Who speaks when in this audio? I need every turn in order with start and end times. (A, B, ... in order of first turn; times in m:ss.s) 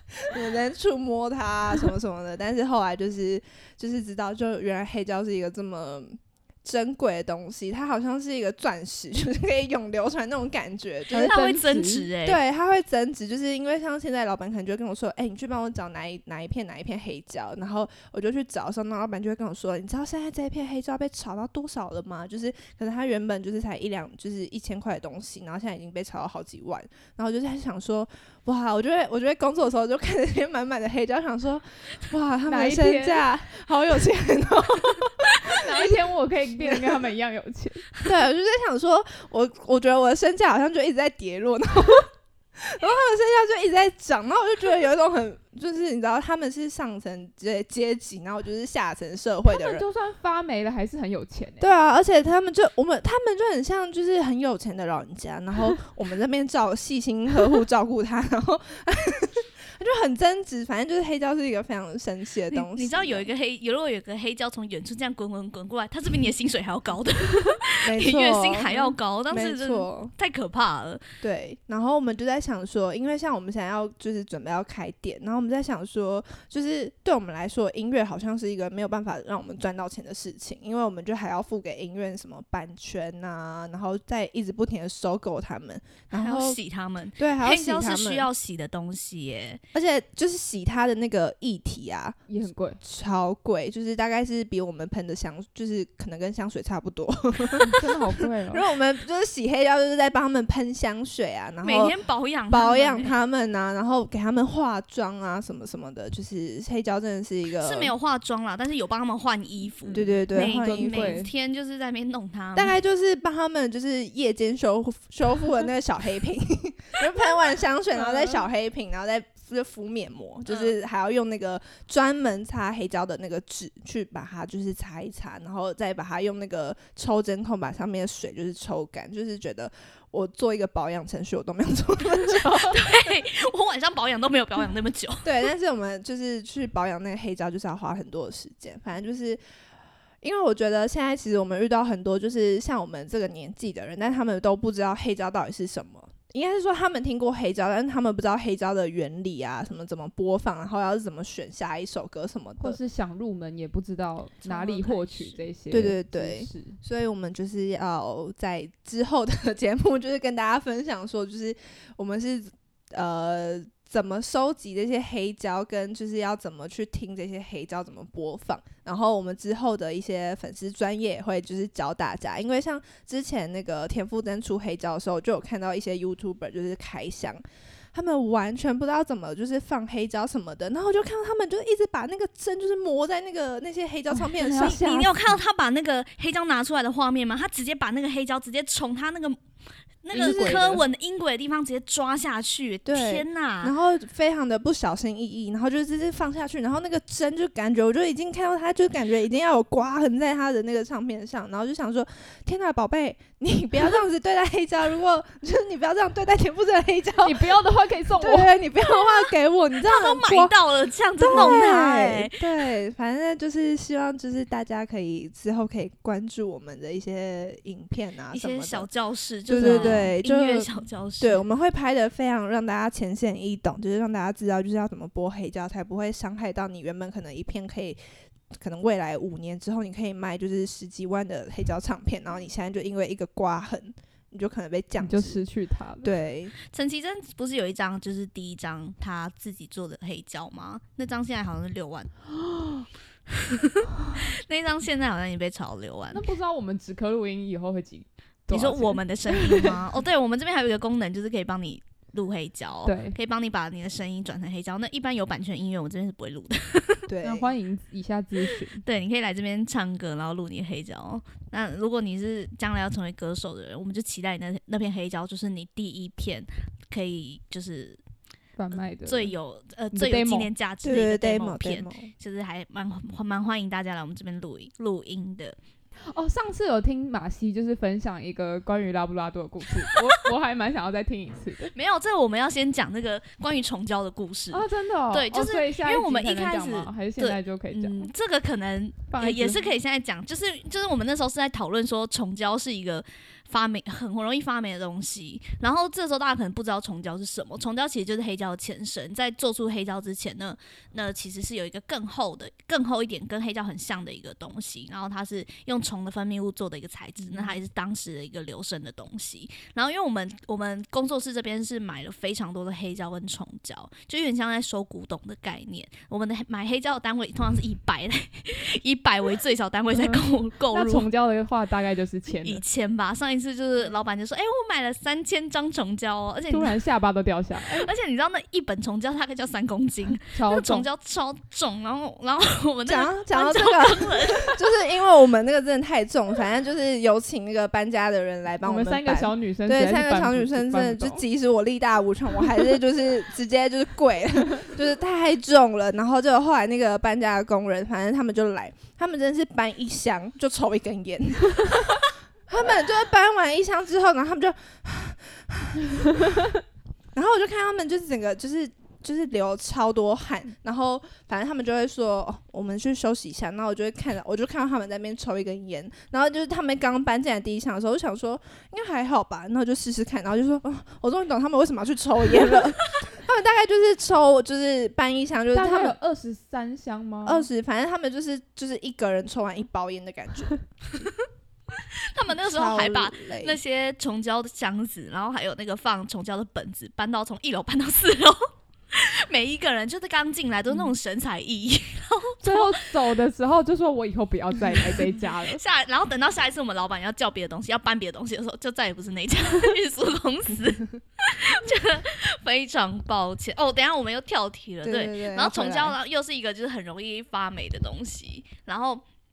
0:00.2-0:11.6 A
0:11.1-0:12.1 B
0:11.1-0:12.4 C
0:12.2-0:36.0 A
0:32.5-0:33.2 B
0:35.4-0:37.9 B
0:36.6-0:37.0 A
0:38.0-0:49.8 A
0:49.5-0:51.7 B
0:51.6-1:03.3 A
1:02.5-1:11.0 C
1:07.8-1:10.1 A
1:11.2-1:26.6 A
1:26.1-1:29.6 C
1:27.2-1:28.3 A
1:29.7-1:32.2 A
1:32.3-1:32.8 B
1:32.8-1:37.9 A
1:37.6-1:38.6 B
1:38.5-1:41.9 A
1:41.6-1:43.1 C
1:42.5-1:47.9 A
1:47.6-1:52.8 C
1:49.9-1:51.3 B
1:49.9-1:51.3 A
1:52.5-2:12.9 A
1:58.0-1:58.4 B
2:00.5-2:00.7 C
2:12.6-2:15.3 C
2:15.2-2:19.4 A
2:20.2-2:32.8 A
2:32.6-2:36.8 B
2:34.5-2:35.4 C
2:35.7-2:57.4 A
2:57.9-3:05.3 A
3:04.1-3:04.8 B
3:04.6-3:09.4 C
3:10.0-3:13.7 C
3:10.1-3:10.8 A
3:10.1-3:10.7 B
3:12.8-3:27.6 A
3:27.2-3:28.6 B
3:28.2-3:30.5 A
3:28.8-3:29.3 C
3:29.8-3:32.3 C
3:31.2-3:38.9 A
3:38.3-3:41.4 C
3:39.5-3:48.0 A
3:39.6-3:40.1 B
3:48.6-3:55.4 A
3:55.0-3:56.1 B
3:56.0-3:56.5 A
3:56.7-4:02.1 C
4:02.6-4:02.8 B
4:03.3-4:06.3 C
4:06.1-4:09.8 B
4:08.5-4:17.1 C
4:12.8-4:13.2 B
4:17.1-4:17.5 A
4:17.2-4:18.8 B
4:18.8-4:28.0 C
4:28.6-4:29.3 B
4:28.7-4:35.6 C
4:29.9-4:30.5 B
4:30.8-4:32.1 A
4:36.1-4:41.7 B
4:41.7-5:21.1 C
4:44.5-4:48.1 B
4:49.1-4:49.7 B
5:19.9-5:22.6 B
5:22.3-5:26.8 C
5:26.5-5:27.9 B
5:27.6-5:34.6 C
5:30.3-5:30.9 B
5:32.8-5:56.4 A
5:38.6-5:41.2 B
5:57.1-6:16.0 A
6:15.5-6:17.5 B
6:17.2-6:20.6 A
6:22.1-6:28.4 C
6:22.3-6:23.6 A
6:28.9-6:32.8 C
6:32.4-6:35.6 B
6:34.8-6:49.0 C
6:44.8-6:46.0 A